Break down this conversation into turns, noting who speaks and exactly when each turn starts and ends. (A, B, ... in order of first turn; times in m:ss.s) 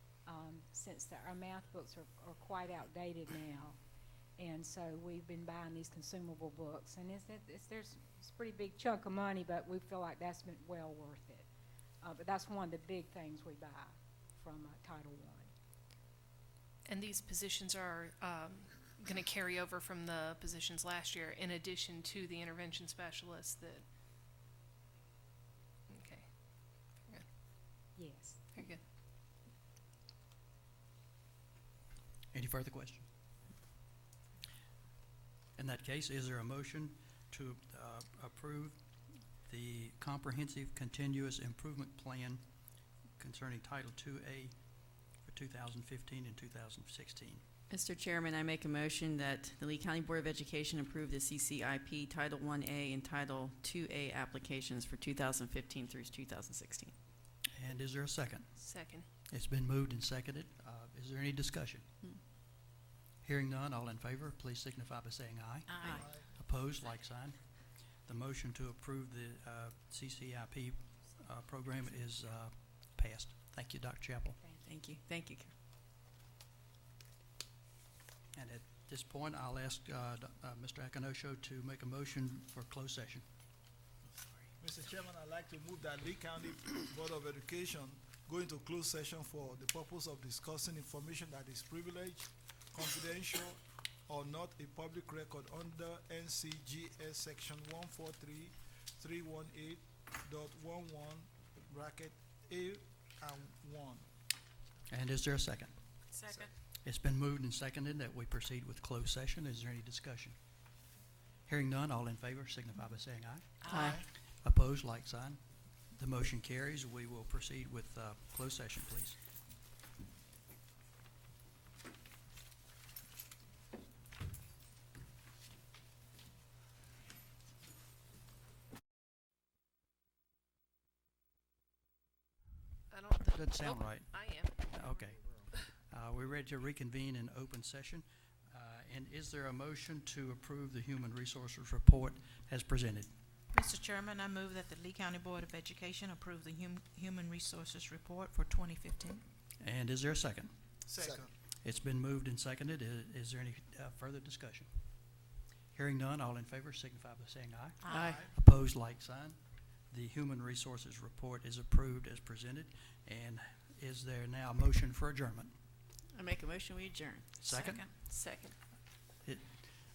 0:00.3-0:03.8 A
0:04.4-0:11.5 A
0:12.0-0:15.5 A
0:16.9-0:23.8 B
0:25.9-0:26.3 B
0:28.0-0:28.4 A
0:28.5-0:28.8 B
0:32.3-0:33.0 C
0:35.6-0:38.8 C
0:39.5-0:42.4 C
0:43.2-0:44.6 C
0:45.2-0:47.4 C
0:47.7-0:56.9 D
0:57.5-0:58.5 C
0:58.6-0:59.1 B
0:59.3-1:01.9 C
1:03.2-1:07.4 C
1:05.8-1:06.0 E
1:05.9-1:06.2 F
1:08.1-1:14.4 C
1:14.6-1:15.5 D
1:18.3-1:23.2 C
1:24.6-1:44.1 F
1:44.9-1:45.7 C
1:46.8-1:50.4 C
1:51.5-1:53.9 C
1:53.7-1:54.0 E
1:54.4-1:55.4 C
1:56.0-1:59.2 C
2:12.9-2:15.0 B
2:13.3-2:23.1 C
2:23.5-2:29.2 E
2:29.6-2:30.5 C
2:30.9-2:31.3 F
2:31.6-2:34.7 C
2:35.7-2:39.4 C
2:37.8-2:38.2 E
2:39.9-2:45.5 C
2:46.2-2:47.4 D
2:47.4-2:47.9 C
2:47.5-2:47.9 E
2:48.0-2:48.5 D
2:49.2-2:49.7 C